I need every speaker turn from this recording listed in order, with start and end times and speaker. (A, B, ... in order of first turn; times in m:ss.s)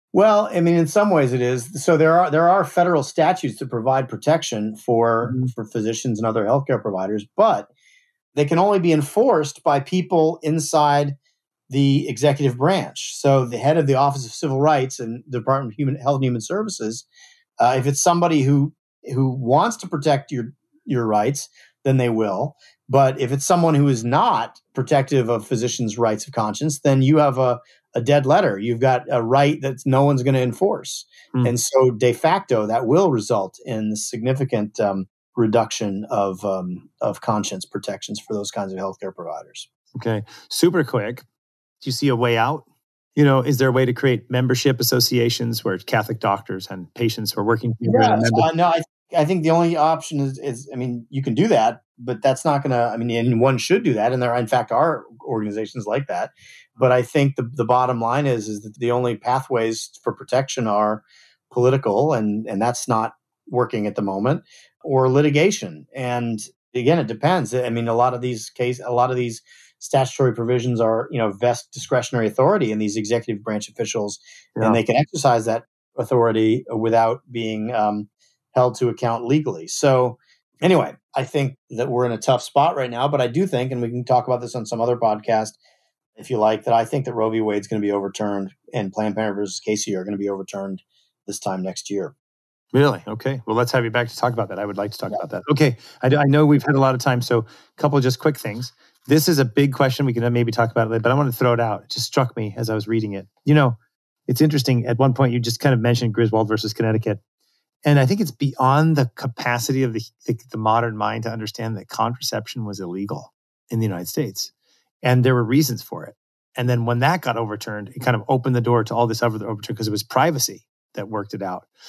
0:00.1-0:07.7 A
0:05.2-0:05.5 B
0:08.3-0:11.2 A
0:11.7-0:17.0 A
0:17.6-0:39.7 A
0:40.0-0:41.2 B
0:41.8-0:48.5 B
0:47.8-1:25.6 A
1:26.2-1:32.1 A
1:32.7-1:43.8 B
1:44.3-1:47.2 B
1:47.8-1:54.5 B
1:55.0-2:01.7 B